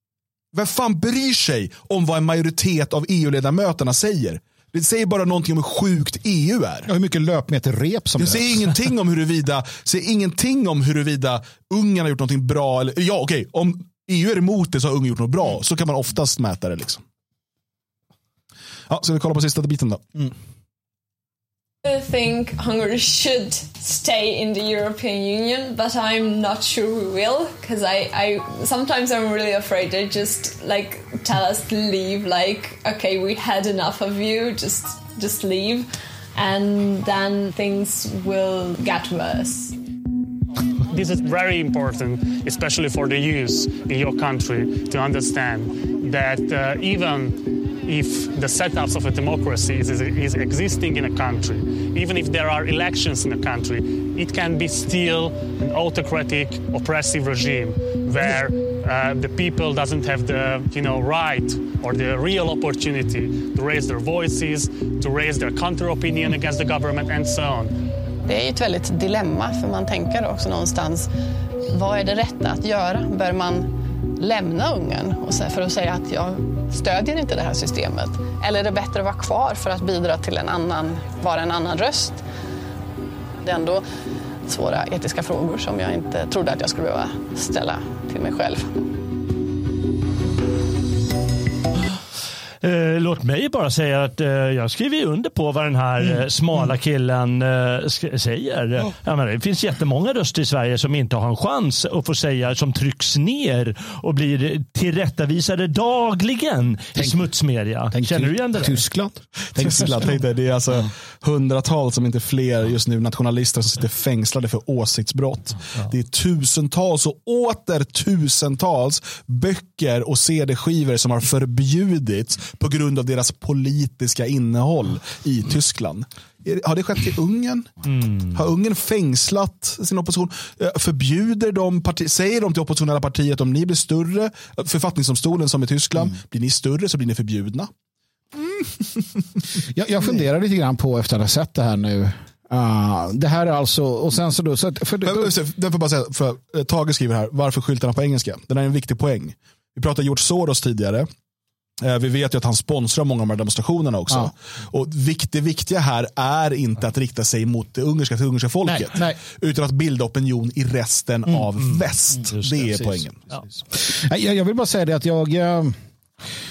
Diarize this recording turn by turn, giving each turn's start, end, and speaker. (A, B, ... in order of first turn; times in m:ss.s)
0:00.5-0:06.9 A
0:06.9-0:08.7 B
0:08.2-0:17.0 A
0:18.9-0:20.3 A
0:21.8-0:39.8 C
0:40.9-1:07.8 D
1:08.2-1:11.1 E
1:11.7-1:22.2 E
1:23.4-1:23.8 E
1:24.4-1:28.8 E
1:32.6-1:48.8 F
1:47.0-1:47.2 B
1:47.9-1:50.2 B
1:49.6-2:07.8 A
2:07.9-2:08.3 F
2:08.3-2:17.7 A
2:18.4-2:19.2 A
2:19.7-2:25.3 B
2:25.0-2:31.1 A
2:31.8-2:43.2 A
2:38.6-2:39.2 B
2:42.3-2:43.4 F
2:43.7-2:45.8 B